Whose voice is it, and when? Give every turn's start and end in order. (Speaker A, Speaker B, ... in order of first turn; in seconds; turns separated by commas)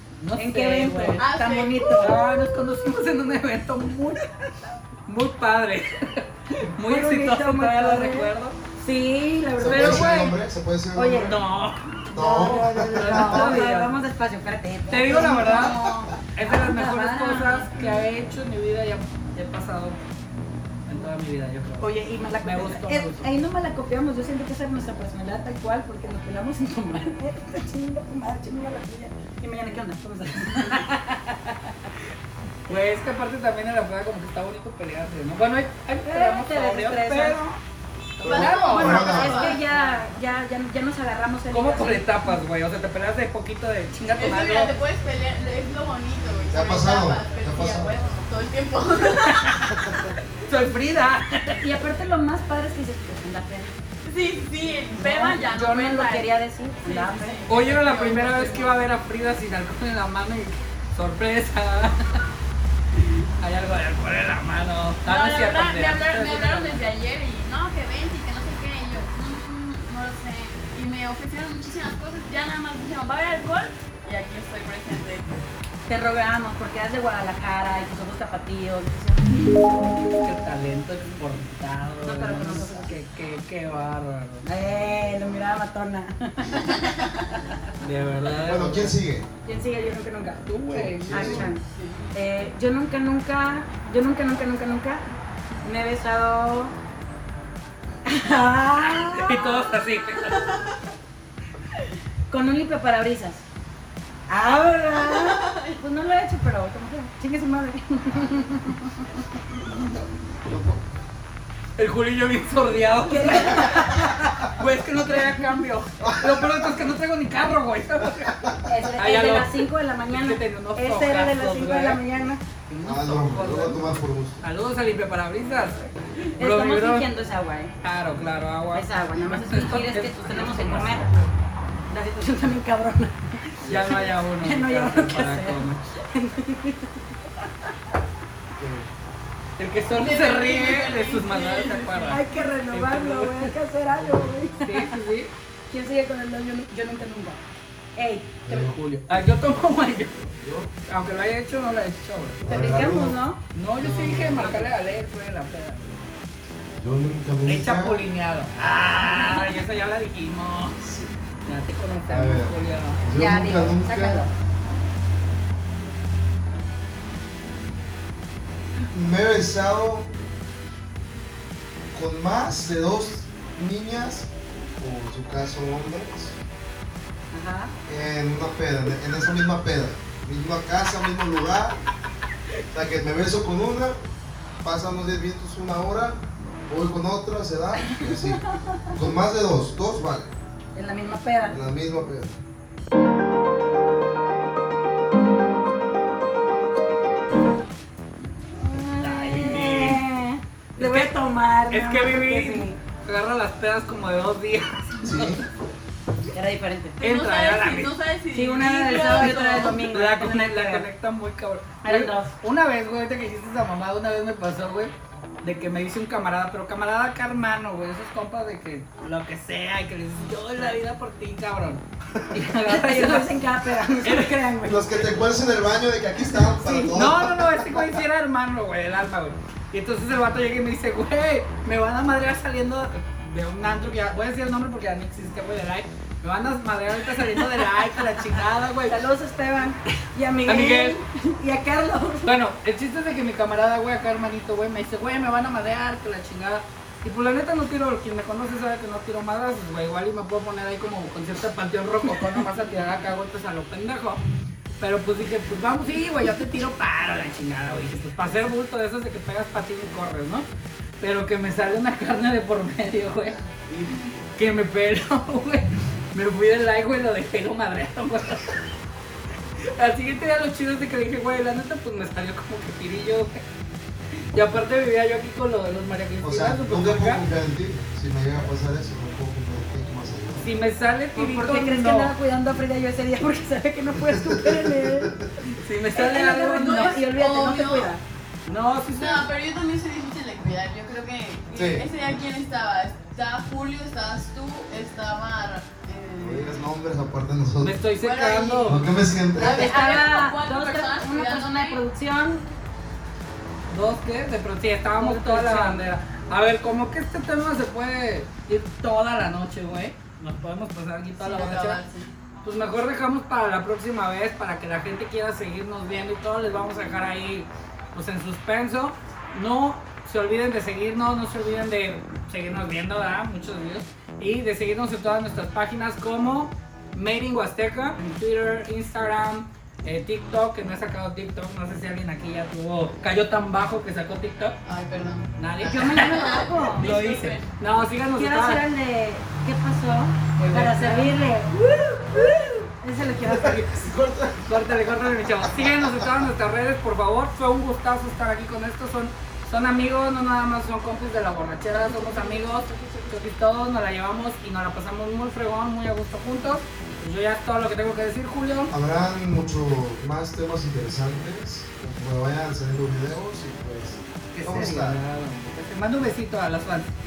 Speaker A: 0.2-1.2, Speaker B: 0.4-2.2, Speaker C: 1.2-2.3, Speaker A: 2.0-8.6, Speaker B: 6.9-10.2, Speaker D: 9.6-11.4, Speaker A: 9.6-10.4, Speaker B: 10.9-11.3, Speaker A: 11.2-13.9, Speaker D: 12.1-13.6, Speaker B: 12.1-18.0, Speaker A: 14.9-15.8, Speaker D: 15.1-16.0, Speaker A: 16.4-20.0, Speaker A: 20.9-21.9, Speaker B: 21.8-31.5, Speaker A: 22.4-23.3, Speaker A: 32.7-37.6, Speaker B: 36.1-37.5, Speaker A: 38.2-40.0, Speaker D: 38.2-39.4, Speaker C: 38.3-39.6, Speaker B: 38.6-42.4, Speaker A: 41.5-44.8, Speaker C: 44.1-49.8, Speaker D: 46.5-48.0, Speaker A: 49.2-49.8, Speaker A: 50.5-51.6, Speaker B: 51.6-53.7, Speaker C: 54.1-58.8, Speaker B: 55.0-57.4, Speaker A: 57.5-62.2, Speaker A: 63.4-66.8, Speaker C: 65.1-75.3, Speaker B: 75.9-79.9, Speaker A: 80.2-84.4, Speaker B: 82.0-83.0, Speaker B: 84.4-87.2, Speaker C: 86.6-87.1, Speaker A: 87.8-89.0, Speaker D: 88.4-89.3, Speaker B: 89.4-90.5, Speaker A: 90.5-91.5, Speaker D: 90.7-91.5, Speaker B: 91.1-91.6, Speaker C: 91.7-92.1, Speaker B: 92.1-95.0, Speaker B: 95.6-96.8, Speaker B: 98.0-99.6, Speaker A: 98.9-100.5, Speaker C: 100.3-100.7, Speaker B: 102.3-103.4, Speaker B: 104.3-109.1, Speaker C: 105.0-105.8, Speaker D: 110.4-110.8, Speaker A: 111.8-122.0, Speaker B: 113.1-114.5, Speaker D: 116.0-116.7, Speaker D: 118.2-118.6, Speaker B: 118.7-122.4, Speaker A: 122.7-127.1, Speaker D: 122.8-124.4, Speaker B: 126.4-127.7, Speaker A: 127.8-131.3, Speaker B: 128.7-131.1, Speaker B: 131.9-137.0, Speaker D: 133.6-134.0, Speaker A: 133.6-135.8, Speaker D: 138.6-138.9, Speaker A: 139.6-143.5, Speaker C: 139.9-142.2, Speaker B: 142.1-144.9, Speaker A: 144.6-145.3, Speaker B: 145.7-147.4, Speaker B: 147.9-148.7, Speaker D: 148.4-148.8, Speaker A: 148.5-150.3, Speaker D: 150.3-150.7, Speaker A: 150.9-152.4, Speaker D: 152.4-153.2, Speaker B: 152.4-153.4, Speaker A: 153.5-156.0, Speaker D: 153.8-154.6, Speaker D: 156.8-158.0, Speaker A: 157.4-160.8, Speaker B: 158.9-159.6, Speaker D: 160.8-161.1, Speaker A: 161.4-163.0, Speaker D: 162.1-164.2, Speaker B: 163.1-164.3, Speaker D: 168.9-170.1, Speaker D: 171.9-176.4, Speaker B: 177.3-177.7, Speaker D: 177.9-181.8, Speaker D: 182.7-183.9, Speaker D: 184.6-190.3, Speaker B: 187.8-188.9, Speaker B: 190.8-191.6, Speaker D: 191.5-192.4, Speaker B: 198.5-202.8, Speaker A: 199.0-200.0, Speaker A: 200.8-201.2, Speaker A: 201.7-205.4, Speaker D: 205.0-205.4, Speaker B: 206.3-207.0, Speaker C: 207.0-209.8, Speaker A: 207.0-207.9, Speaker B: 208.3-210.9, Speaker A: 208.9-223.4, Speaker B: 211.8-212.3, Speaker B: 222.3-225.2, Speaker A: 224.0-224.6, Speaker D: 224.7-227.9, Speaker B: 226.3-226.9, Speaker A: 226.9-239.1, Speaker B: 237.1-238.2, Speaker B: 238.9-242.4, Speaker A: 240.5-241.0, Speaker A: 242.2-254.2, Speaker A: 254.8-260.4, Speaker A: 261.0-263.4, Speaker A: 264.4-268.6, Speaker A: 269.6-273.4, Speaker A: 274.3-277.2, Speaker D: 276.2-280.6, Speaker A: 280.4-282.1, Speaker B: 281.1-285.2, Speaker D: 284.0-285.3, Speaker A: 285.4-287.0, Speaker B: 285.9-288.0, Speaker C: 286.1-287.9, Speaker A: 288.4-289.3, Speaker C: 289.0-296.5, Speaker D: 291.5-291.9, Speaker D: 296.2-297.8, Speaker A: 297.6-298.8, Speaker C: 298.0-301.8, Speaker D: 298.6-299.8, Speaker B: 299.4-302.4, Speaker A: 303.7-311.8, Speaker B: 305.0-305.9, Speaker C: 311.2-312.1, Speaker A: 312.4-334.6, Speaker C: 334.6-337.4, Speaker A: 335.4-338.6, Speaker B: 335.6-336.9, Speaker B: 338.1-343.9, Speaker A: 340.4-341.1, Speaker D: 343.3-344.6, Speaker A: 344.5-358.7, Speaker D: 345.5-346.3, Speaker B: 351.9-352.4, Speaker D: 358.7-365.0, Speaker A: 364.3-366.9